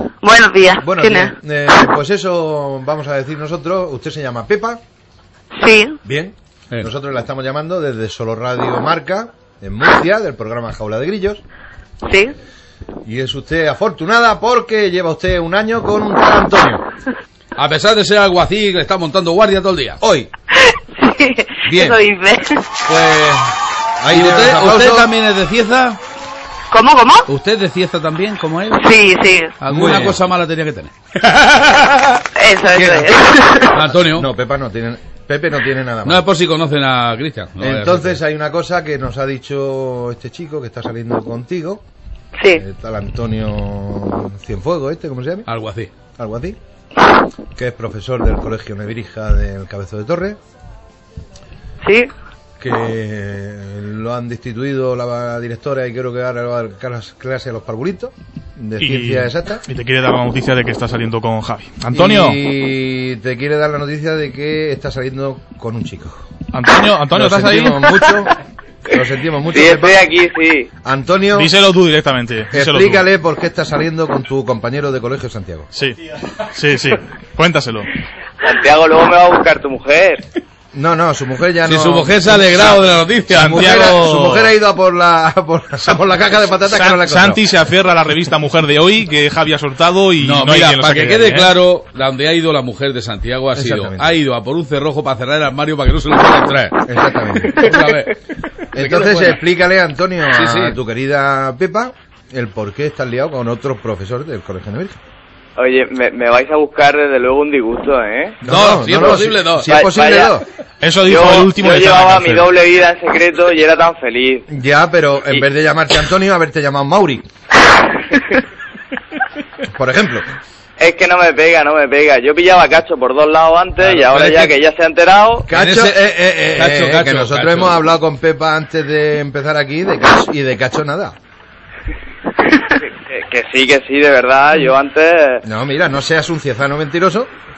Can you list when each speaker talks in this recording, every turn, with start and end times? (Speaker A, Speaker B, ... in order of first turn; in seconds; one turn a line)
Speaker A: 0.2-1.3
Speaker B: 0.8-4.8
Speaker A: 5.5-6.0
Speaker B: 6.0-11.4
Speaker A: 12.0-12.3
Speaker B: 13.1-16.8
Speaker C: 17.6-20.0
Speaker B: 20.0-20.3
Speaker A: 20.5-22.7
Speaker B: 21.6-22.0
Speaker B: 22.9-23.4
Speaker B: 24.0-25.1
Speaker C: 24.1-26.0
Speaker A: 26.7-27.3
Speaker C: 27.3-28.9
Speaker A: 28.7-29.6
Speaker C: 29.6-32.2
Speaker B: 29.7-30.2
Speaker A: 32.4-33.9
Speaker B: 32.7-33.1
Speaker C: 33.8-34.3
Speaker B: 33.8-36.2
Speaker C: 36.1-38.2
Speaker B: 37.6-41.8
Speaker B: 42.5-45.5
Speaker C: 45.5-45.9
Speaker B: 46.2-46.6
Speaker B: 47.6-50.4
Speaker A: 51.8-52.1
Speaker B: 52.6-59.6
Speaker D: 58.8-62.4
Speaker B: 61.9-66.2
Speaker D: 66.5-67.9
Speaker B: 67.1-68.3
Speaker B: 68.9-70.0
Speaker E: 69.5-70.7
Speaker B: 70.8-71.5
Speaker D: 71.3-73.0
Speaker B: 72.5-75.7
Speaker D: 75.8-77.9
Speaker E: 78.4-80.2
Speaker B: 80.7-82.8
Speaker C: 81.7-84.0
Speaker D: 83.3-84.5
Speaker B: 83.3-87.4
Speaker D: 86.7-91.5
Speaker C: 90.2-96.8
Speaker B: 93.5-94.2
Speaker B: 96.9-97.6
Speaker C: 97.4-98.2
Speaker E: 97.6-98.0
Speaker C: 98.7-99.4
Speaker B: 98.7-105.0
Speaker C: 100.3-100.8
Speaker E: 105.6-108.4
Speaker B: 108.4-110.4
Speaker C: 108.4-109.7
Speaker E: 109.6-110.4
Speaker D: 110.8-112.5
Speaker E: 111.0-114.5
Speaker B: 114.5-117.3
Speaker E: 117.7-118.2
Speaker B: 119.7-120.3
Speaker E: 120.8-125.5
Speaker C: 123.8-124.5
Speaker B: 125.5-131.2
Speaker C: 125.5-126.0
Speaker C: 126.5-127.8
Speaker E: 132.8-135.4
Speaker B: 135.4-137.3